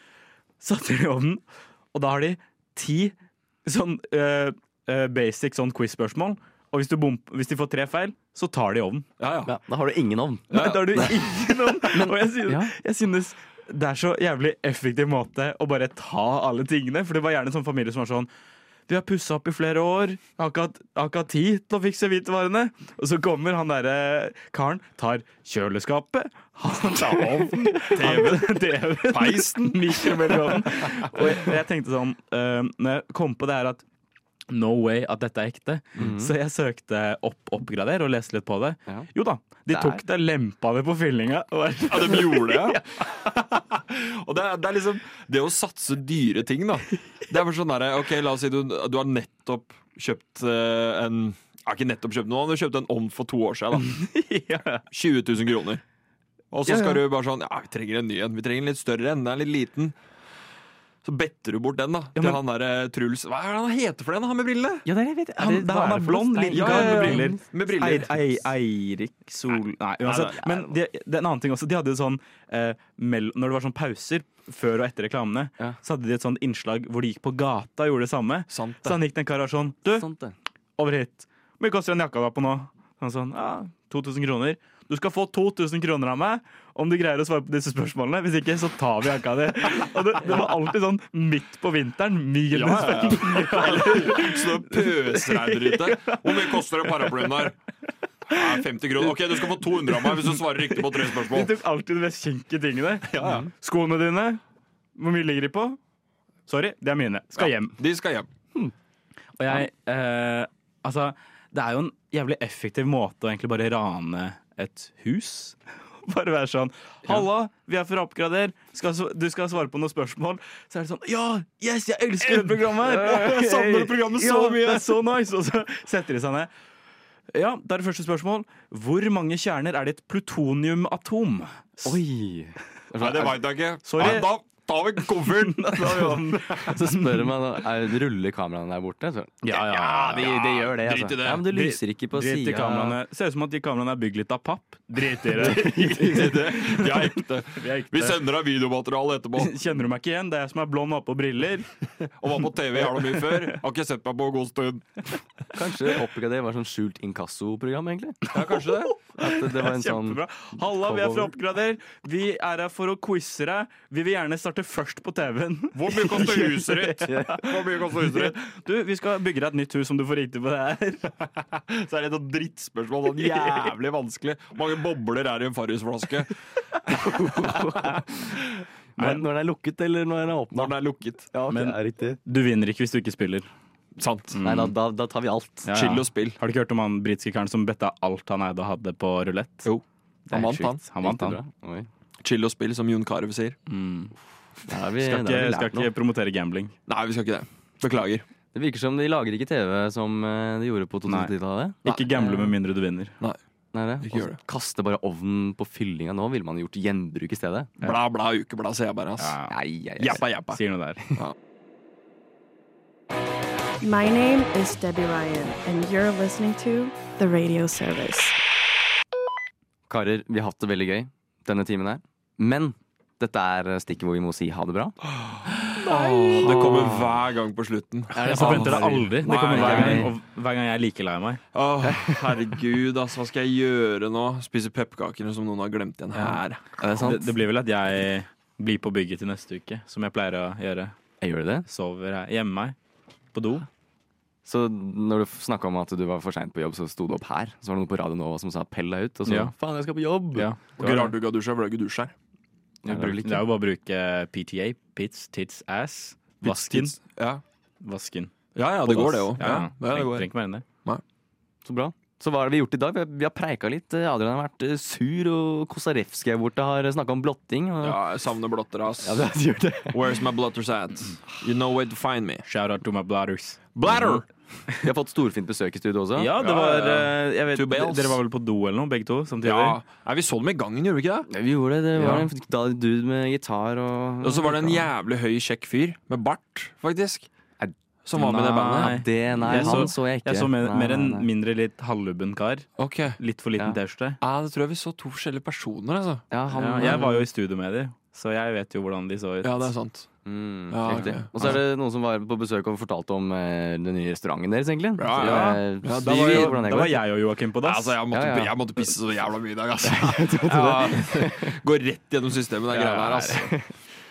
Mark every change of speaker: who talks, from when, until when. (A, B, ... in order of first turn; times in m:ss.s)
0:00.6-0:01.4 A
0:01.9-0:03.1 A
0:03.6-0:09.1 A
0:09.2-0:09.5 B
0:09.4-0:12.7 C
0:10.5-0:11.0 B
0:10.5-0:18.3 A
0:18.9-0:33.8 A
0:27.9-0:30.6 B
0:34.5-0:43.0 A
0:36.0-0:36.3 C
0:39.7-0:40.0 C
0:41.9-0:54.0 B
0:53.8-0:54.8 A
0:54.9-0:55.8 B
0:56.5-1:00.0 B
0:56.7-0:57.0 A
1:01.0-1:04.9 B
1:04.8-1:07.4 C
1:05.4-1:20.1 A
1:06.5-1:08.4 B
1:10.0-1:10.5 B
1:18.5-1:19.0 B
1:19.9-1:20.4 C
1:20.8-1:37.5 A
1:32.5-1:37.6 B
1:38.3-1:41.6 B
1:39.0-1:44.4 A
1:43.1-1:43.4 B
1:43.2-1:43.5 C
1:45.0-1:45.8 A
1:46.5-1:47.8 A
1:47.4-1:48.3 B
1:49.4-2:06.5 A
2:02.4-2:05.0 B
2:07.3-2:11.8 A
2:11.8-2:13.4 C
2:13.0-2:16.7 B
2:13.8-2:14.3 A
2:15.3-2:17.3 A
2:16.7-2:23.0 C
2:19.4-2:20.3 A
2:19.5-2:21.5 B
2:21.4-2:28.2 A
2:25.4-2:29.6 B
2:25.4-2:25.9 C
2:29.4-2:31.7 A
2:32.1-2:35.2 B
2:35.5-2:38.3 C
2:38.3-2:38.9 B
2:39.2-2:51.2 A
2:39.2-2:41.4 C
2:45.7-2:48.4 B
2:47.0-2:47.4 C
2:51.7-2:56.3 B
2:56.9-2:58.2 C
2:59.0-3:00.8 C
2:59.0-2:59.3 A
3:00.5-3:01.3 B
3:01.3-3:02.2 C
3:01.5-3:03.5 A
3:04.0-3:04.4 B
3:04.3-3:04.7 A
3:04.4-3:05.7 C
3:05.7-3:09.7 A
3:05.7-3:06.4 B
3:09.6-3:10.8 B
3:10.3-3:11.4 A
3:11.0-3:11.9 C
3:12.2-3:13.6 B
3:13.7-3:14.1 A
3:14.7-3:15.9 C
3:15.0-3:16.7 A
3:16.9-3:18.2 B
3:18.5-3:22.5 C
3:21.1-3:21.3 A
3:21.8-3:23.2 A
3:23.7-3:27.7 C
3:24.0-3:24.4 B
3:27.8-3:29.4 B
3:29.2-3:29.5 A
3:29.5-3:30.3 C
3:30.0-3:30.6 B
3:30.1-3:31.0 A
3:33.8-3:38.4 D
3:39.9-3:45.0 C
3:45.2-3:50.1 B
3:46.3-3:46.9 C
3:46.4-3:46.8 A
3:48.1-3:50.1 C
3:48.2-3:51.4 A
3:51.5-3:56.6 B
3:51.8-3:52.4 C
3:56.2-3:57.3 C
3:57.0-4:01.0 A
4:01.2-4:01.7 C
4:01.7-4:02.8 A
4:03.3-4:03.7 A
4:04.4-4:10.5 C
4:09.3-4:09.5 A
4:10.4-4:11.2 A
4:10.8-4:12.1 B
4:12.8-4:13.4 C
4:12.9-4:17.0 A
4:16.4-4:17.4 B
4:17.8-4:20.6 A
4:18.6-4:20.3 B
4:21.6-4:28.0 C
4:27.8-4:29.3 B
4:29.0-4:30.1 C
4:29.9-4:32.5 B
4:32.5-4:34.2 A
4:33.8-4:34.2 B
4:34.8-4:36.3 C
4:36.2-4:39.8 A
4:36.4-4:38.2 B
4:39.4-4:41.3 B
4:41.3-4:44.9 C
4:42.0-4:42.3 B
4:44.2-4:47.3 B
4:48.0-4:49.9 B
4:48.2-4:54.2 A
4:48.8-4:51.3 C
4:52.8-4:53.2 B
4:54.2-4:56.2 B
4:56.3-4:57.3 C
4:56.5-4:59.7 A
4:56.8-4:57.0 B
4:59.4-5:00.1 B
5:00.2-5:07.0 C
5:00.7-5:01.6 B
5:00.9-5:01.6 A
5:05.0-5:06.6 B
5:05.2-5:08.0 A
5:07.6-5:13.5 B
5:08.1-5:08.6 C
5:09.8-5:11.5 C
5:12.7-5:13.5 A